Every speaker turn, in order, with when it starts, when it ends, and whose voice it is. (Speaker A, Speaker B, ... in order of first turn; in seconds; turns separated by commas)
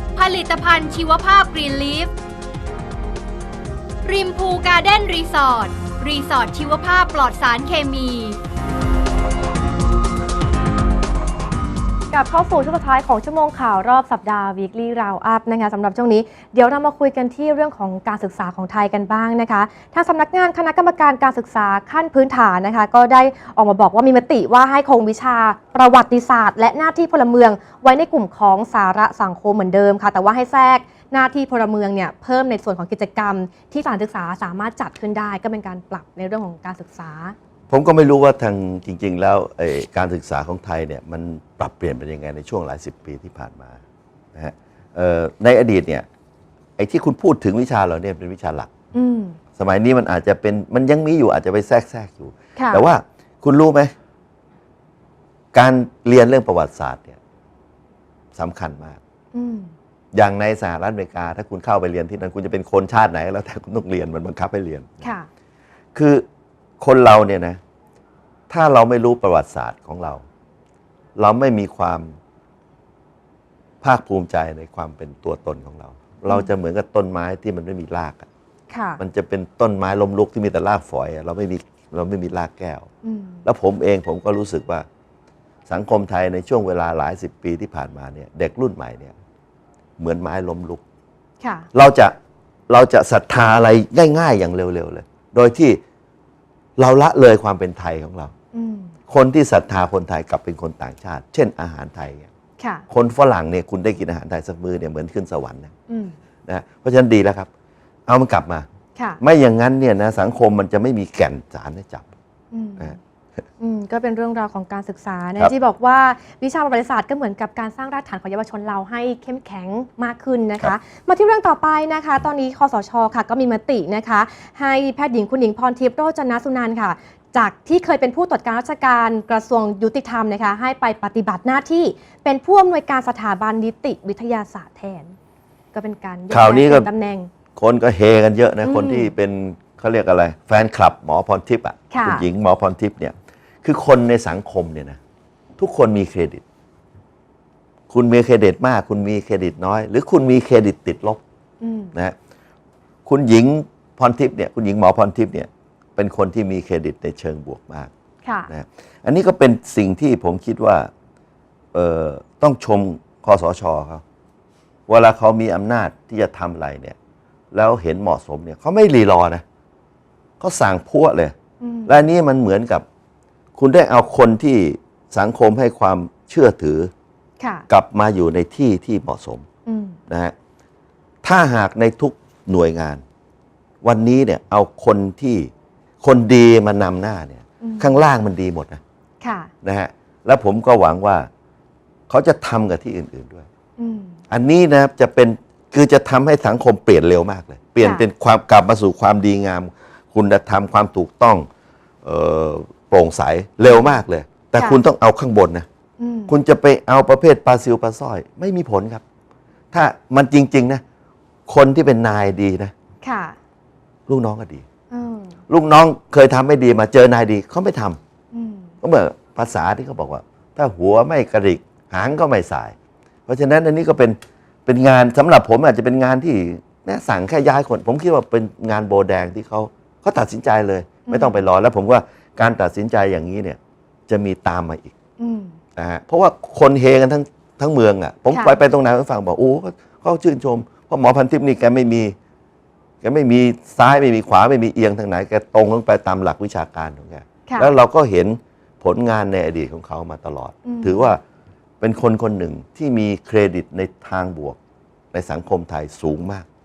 Speaker A: 0.1-2.1, Speaker A: 4.0-8.4, Speaker B: 12.1-37.3, Speaker C: 37.7-43.8, Speaker C: 44.3-46.0, Speaker C: 46.8-48.7, Speaker B: 48.9-49.4, Speaker C: 49.5-53.9, Speaker B: 52.5-52.9, Speaker C: 55.5-57.2, Speaker C: 58.3-59.0, Speaker B: 59.3-59.7, Speaker C: 60.1-65.0, Speaker B: 65.0-65.3, Speaker C: 65.9-66.2, Speaker C: 66.8-67.6, Speaker C: 68.5-70.2, Speaker C: 71.2-72.2, Speaker C: 73.8-78.3, Speaker B: 78.7-79.0, Speaker C: 79.0-82.9, Speaker B: 83.0-83.4, Speaker C: 83.4-84.8, Speaker C: 85.7-89.1, Speaker C: 90.0-90.8, Speaker B: 91.4-91.7, Speaker C: 91.7-92.1, Speaker C: 92.7-95.8, Speaker C: 96.8-98.3, Speaker B: 98.5-98.9, Speaker C: 99.1-102.3, Speaker B: 102.6-102.8, Speaker C: 102.9-105.7, Speaker B: 105.9-106.2, Speaker C: 106.5-107.5, Speaker C: 108.1-108.7, Speaker B: 109.0-109.2, Speaker C: 109.2-112.1, Speaker B: 112.5-113.0, Speaker B: 113.6-135.1, Speaker B: 135.7-137.3, Speaker C: 136.3-136.9, Speaker C: 137.6-145.0, Speaker B: 138.6-139.1, Speaker B: 141.9-142.3, Speaker C: 145.6-146.4, Speaker C: 147.9-151.2, Speaker B: 151.6-151.9, Speaker C: 153.0-157.9, Speaker B: 158.2-158.5, Speaker C: 158.5-160.9, Speaker C: 161.7-164.0, Speaker C: 164.9-167.0, Speaker C: 167.5-169.4, Speaker C: 170.4-171.3, Speaker B: 171.6-172.0, Speaker C: 171.8-172.8, Speaker C: 173.6-176.9, Speaker B: 177.4-177.7, Speaker C: 177.7-179.4, Speaker B: 179.7-180.0, Speaker C: 180.1-180.3, Speaker C: 181.2-183.0, Speaker C: 183.8-185.5, Speaker C: 186.0-188.8, Speaker B: 187.6-187.9, Speaker B: 189.2-189.5, Speaker C: 189.6-191.3, Speaker C: 192.1-193.5, Speaker B: 193.8-194.2, Speaker C: 194.3-201.5, Speaker B: 197.8-198.1, Speaker C: 202.0-205.7, Speaker B: 203.7-204.0, Speaker B: 204.6-204.8, Speaker B: 206.0-206.3, Speaker C: 206.3-209.0, Speaker C: 209.7-210.8, Speaker C: 211.5-212.7, Speaker B: 213.0-213.4, Speaker C: 214.1-214.6, Speaker B: 214.9-215.3, Speaker C: 215.5-218.0, Speaker B: 218.3-218.7, Speaker C: 218.8-222.7, Speaker C: 223.3-234.9, Speaker B: 231.1-231.4, Speaker B: 235.2-235.6, Speaker C: 235.8-242.2, Speaker B: 238.3-238.6, Speaker C: 243.0-251.2, Speaker B: 247.4-247.7, Speaker B: 250.6-251.1, Speaker C: 251.8-254.6, Speaker C: 255.1-256.5